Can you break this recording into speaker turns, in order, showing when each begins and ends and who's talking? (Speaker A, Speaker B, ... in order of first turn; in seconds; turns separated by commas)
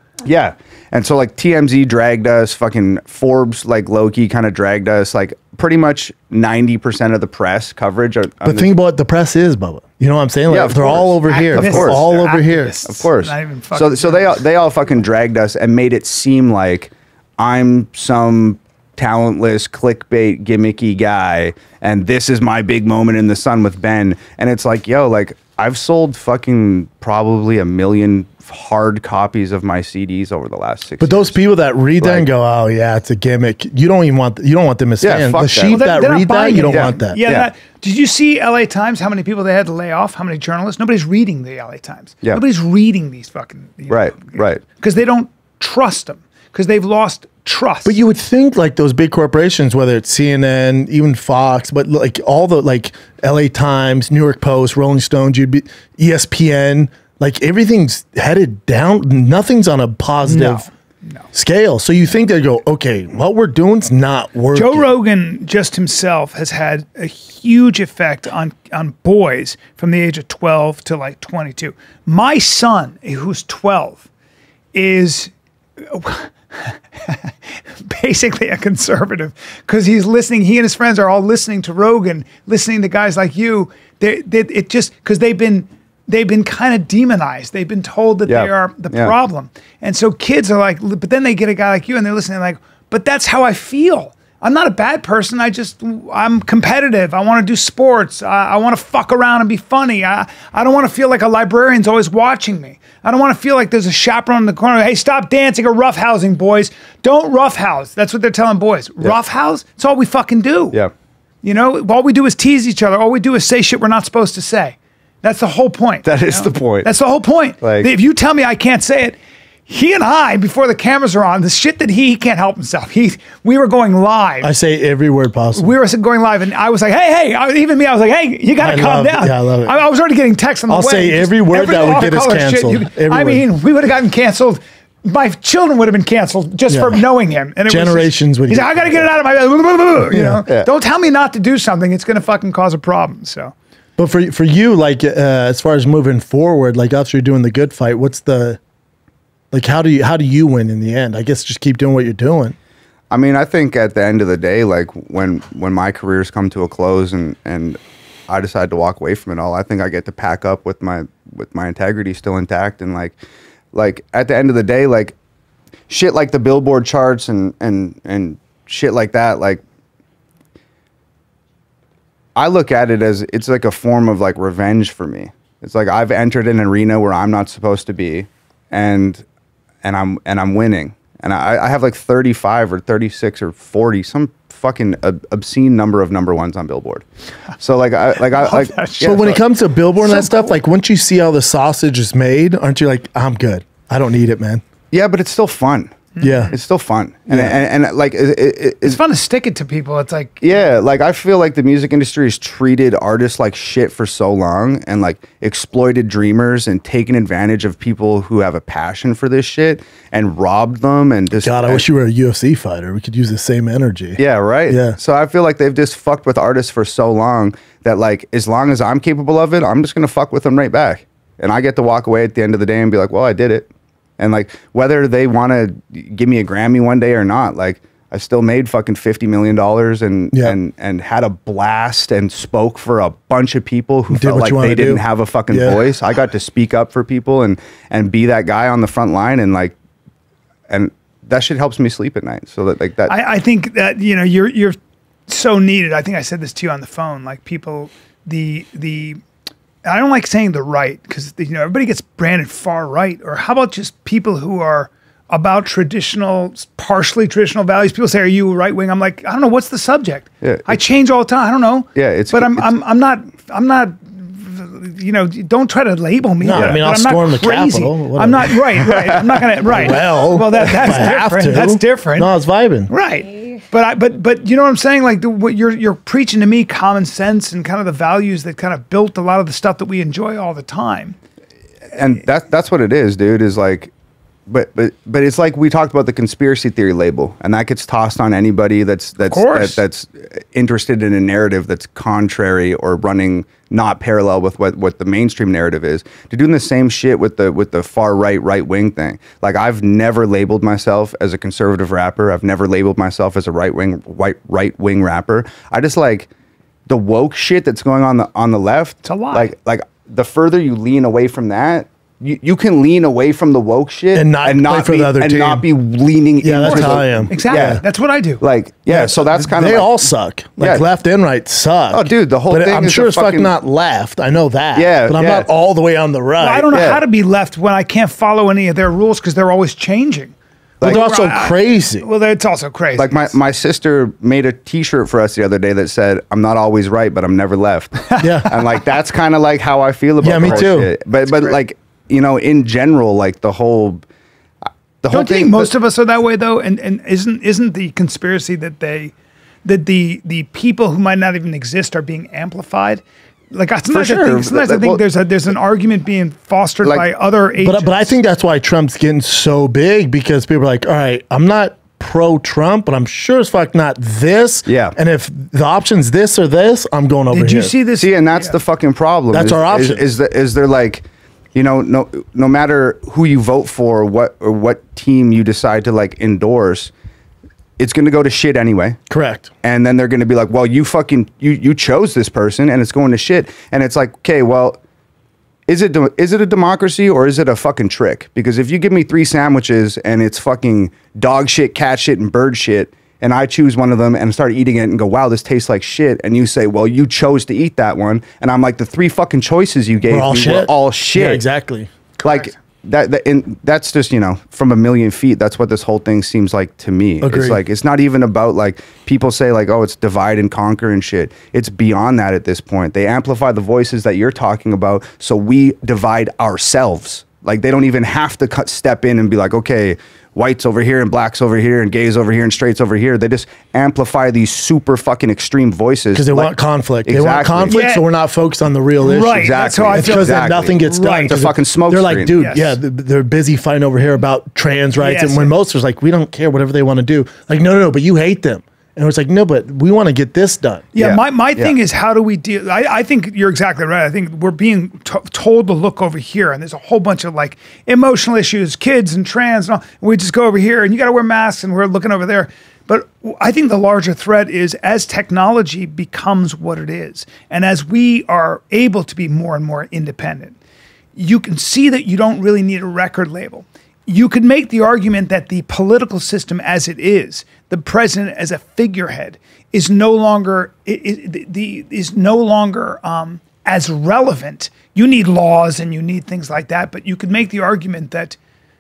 Speaker A: 0.2-8.7, Speaker B: 8.4-12.8, Speaker A: 10.5-12.0, Speaker C: 11.3-14.4, Speaker A: 12.9-31.4, Speaker B: 31.0-37.2, Speaker A: 32.0-32.3, Speaker A: 35.0-35.9, Speaker C: 35.7-48.0, Speaker A: 36.7-37.5, Speaker A: 43.9-44.6, Speaker B: 47.9-60.7, Speaker C: 60.2-61.2, Speaker B: 61.3-64.9, Speaker C: 64.5-74.0, Speaker C: 74.7-75.3, Speaker C: 75.8-110.8, Speaker A: 88.3-89.1, Speaker C: 111.4-124.5, Speaker A: 116.0-116.9, Speaker A: 117.6-117.9, Speaker B: 124.4-125.7, Speaker C: 125.6-143.5, Speaker B: 128.6-129.7, Speaker B: 130.7-133.4, Speaker B: 136.7-137.0, Speaker B: 137.7-139.1, Speaker B: 140.1-140.4, Speaker B: 144.0-148.6, Speaker B: 149.5-152.6, Speaker A: 153.1-163.2, Speaker A: 163.7-165.2, Speaker A: 165.9-169.6, Speaker A: 172.4-179.2, Speaker A: 179.8-187.0, Speaker A: 187.6-189.4, Speaker C: 188.2-189.2, Speaker B: 189.0-194.6, Speaker C: 190.0-190.6, Speaker A: 194.9-195.9, Speaker C: 196.2-196.5, Speaker B: 196.2-196.6, Speaker A: 196.5-199.0, Speaker B: 197.3-197.6, Speaker C: 198.8-200.7, Speaker A: 200.4-211.8, Speaker B: 211.4-215.0, Speaker A: 214.2-223.7, Speaker A: 224.2-239.8, Speaker B: 234.1-235.8, Speaker A: 240.7-243.2, Speaker C: 243.1-244.8, Speaker C: 245.3-249.2, Speaker C: 249.8-272.3, Speaker A: 260.4-260.8, Speaker A: 261.9-262.7, Speaker B: 266.4-268.9, Speaker A: 266.5-266.8, Speaker B: 269.7-272.9, Speaker C: 272.9-281.2, Speaker A: 281.9-283.9, Speaker A: 284.5-306.3, Speaker C: 289.2-289.8, Speaker A: 306.9-317.8, Speaker C: 309.0-309.5, Speaker B: 314.1-315.6, Speaker B: 316.4-317.8, Speaker C: 316.7-318.4, Speaker A: 318.4-320.8, Speaker B: 318.9-326.7, Speaker A: 321.9-323.5, Speaker A: 324.8-325.5, Speaker C: 326.4-333.3, Speaker A: 326.7-327.0, Speaker B: 330.8-332.1, Speaker A: 333.0-344.0, Speaker C: 338.1-338.6, Speaker B: 338.2-338.5, Speaker B: 340.2-340.9, Speaker A: 345.0-345.7, Speaker C: 345.1-349.1, Speaker C: 349.6-358.1, Speaker A: 353.9-355.0, Speaker B: 357.6-367.7, Speaker A: 364.7-365.0, Speaker C: 367.3-368.6, Speaker A: 368.0-376.9, Speaker B: 369.3-370.0, Speaker A: 377.8-379.0, Speaker B: 379.1-379.5, Speaker A: 379.6-384.8, Speaker A: 385.7-401.4, Speaker B: 400.1-401.9, Speaker C: 402.2-402.5, Speaker A: 402.2-426.5, Speaker B: 407.2-407.6, Speaker B: 426.1-440.9, Speaker A: 427.1-427.8, Speaker C: 427.7-428.0, Speaker C: 429.0-431.3, Speaker A: 429.2-432.4, Speaker C: 432.4-432.7, Speaker C: 435.0-435.5, Speaker C: 440.9-460.6, Speaker A: 441.0-441.8, Speaker C: 461.2-478.4